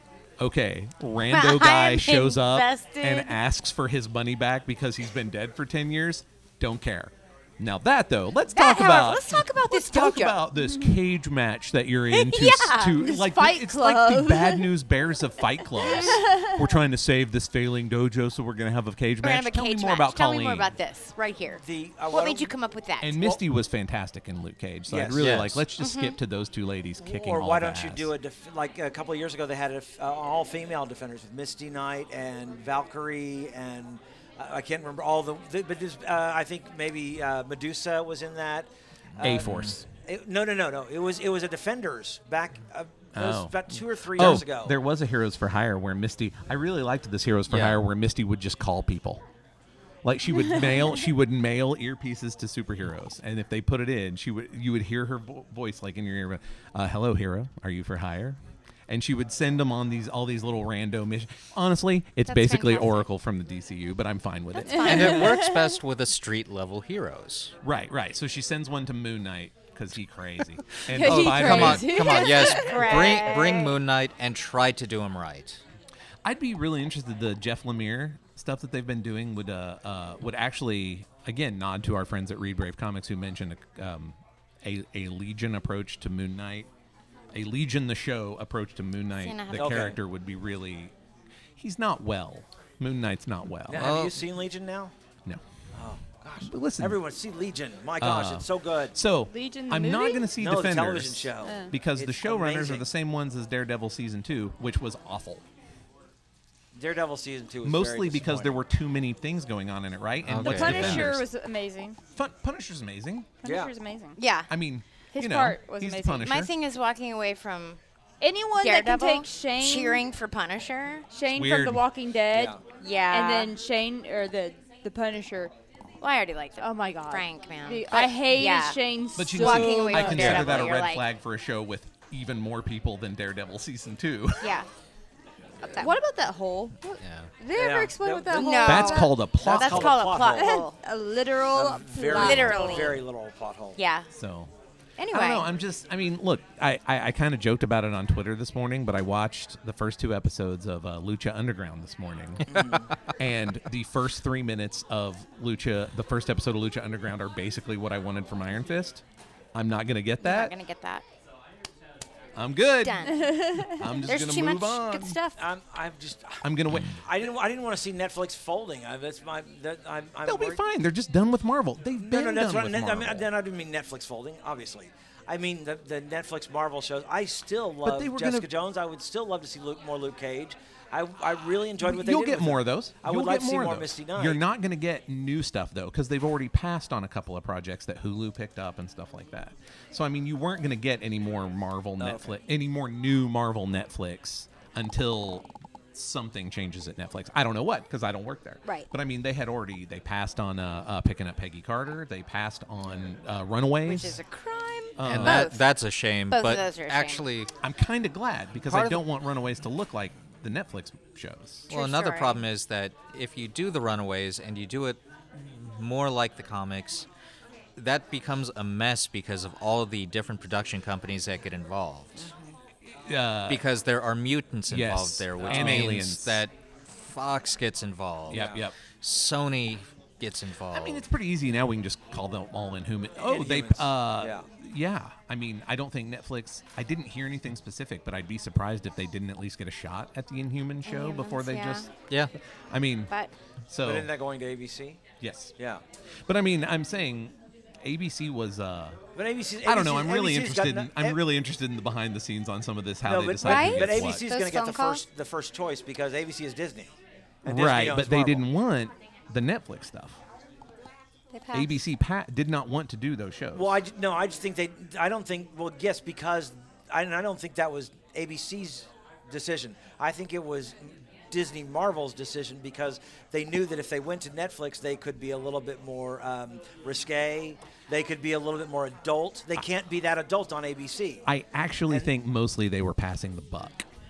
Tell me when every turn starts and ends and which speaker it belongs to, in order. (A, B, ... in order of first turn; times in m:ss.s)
0:00.4-0:20.7 A
0:01.3-0:03.3 B
0:08.5-0:10.4 B
0:10.6-0:10.9 C
0:12.1-0:13.0 B
0:13.0-0:14.7 C
0:15.9-0:16.6 C
0:19.2-0:23.3 B
0:21.6-0:22.5 D
0:23.0-0:28.1 A
0:24.9-0:25.4 D
0:25.2-0:25.6 E
0:25.7-0:26.2 B
0:27.0-0:44.8 D
0:39.1-0:39.8 E
0:39.2-0:39.8 A
0:43.1-0:43.6 A
0:44.1-0:49.3 A
0:47.5-0:47.8 E
0:50.0-1:05.4 A
1:02.2-1:03.0 B
1:04.6-1:05.4 B
1:04.8-1:07.5 E
1:05.2-1:05.6 C
1:07.6-1:12.2 A
1:10.9-1:13.4 C
1:11.0-1:15.6 E
1:12.3-1:13.8 B
1:16.2-1:26.7 A
1:27.3-1:30.9 A
1:29.2-1:29.9 B
1:29.6-1:30.0 D
1:31.6-1:33.9 A
1:33.7-1:34.9 D
1:33.8-1:34.3 E
1:35.8-1:39.0 D
1:36.4-1:37.0 A
1:38.0-1:45.4 A
1:39.3-1:40.3 C
1:40.4-1:42.8 D
1:41.4-1:41.7 C
1:46.7-1:48.6 D
1:47.6-1:51.2 A
1:50.2-1:51.1 E
1:50.4-1:52.0 C
1:52.1-1:53.4 A
1:53.4-1:54.2 C
1:53.4-1:53.7 D
1:54.2-1:54.5 B
1:54.5-1:56.5 A
1:55.1-1:56.3 C
1:56.2-1:57.8 B
1:58.2-2:00.0 C
1:58.6-2:01.1 B
2:01.1-2:02.6 C
2:01.3-2:01.8 A
2:02.3-2:02.6 D
2:02.8-2:03.5 B
2:03.1-2:05.5 C
2:06.0-2:08.8 B
2:06.6-2:10.4 C
2:09.2-2:14.6 A
2:09.3-2:11.0 B
2:14.4-2:14.7 B
2:15.6-2:19.1 C
2:17.0-2:17.3 E
2:17.5-2:20.6 D
2:18.3-2:20.8 B
2:18.6-2:20.0 A
2:20.3-2:23.0 C
2:21.5-2:23.8 D
2:22.1-2:23.0 B
2:23.8-2:24.1 B
2:24.1-2:24.5 A
2:25.0-2:25.5 B
2:25.1-2:39.0 A
2:32.5-2:32.9 D
2:39.5-2:40.5 A
2:40.2-2:41.0 B
2:42.4-2:45.2 A
2:42.8-2:43.3 B
2:43.1-2:43.9 C
2:44.0-2:45.4 B
2:45.4-2:50.6 D
2:46.4-2:47.0 A
2:50.2-2:53.3 A
2:52.0-3:04.4 D
2:57.8-2:58.5 A
3:01.8-3:24.2 A
3:12.0-3:12.4 D
3:23.9-3:25.6 B
3:25.0-3:25.5 A
3:25.0-3:27.5 E
3:26.3-3:27.3 B
3:27.6-3:31.7 A
3:31.7-3:32.4 B
3:31.7-3:37.1 E
3:37.8-3:42.3 E
3:42.2-3:42.5 B
3:43.1-3:43.7 A
3:43.5-3:51.0 E
3:44.7-3:46.5 A
3:45.4-3:46.0 D
3:48.3-3:48.8 A
3:48.3-3:48.6 D
3:50.7-4:01.9 A
3:53.2-3:54.4 D
4:00.8-4:01.9 B
4:02.7-4:03.1 A
4:03.7-4:04.1 A
4:03.8-4:05.0 D
4:05.2-4:05.6 A
4:06.3-4:09.0 A
4:09.2-4:11.2 D
4:09.6-4:14.2 A
4:13.0-4:16.9 D
4:13.4-4:15.0 B
4:17.4-4:18.4 D
4:17.4-4:20.2 A
4:21.3-4:21.7 B
4:21.5-4:23.8 A
4:23.5-4:41.2 D
4:41.3-4:43.9 A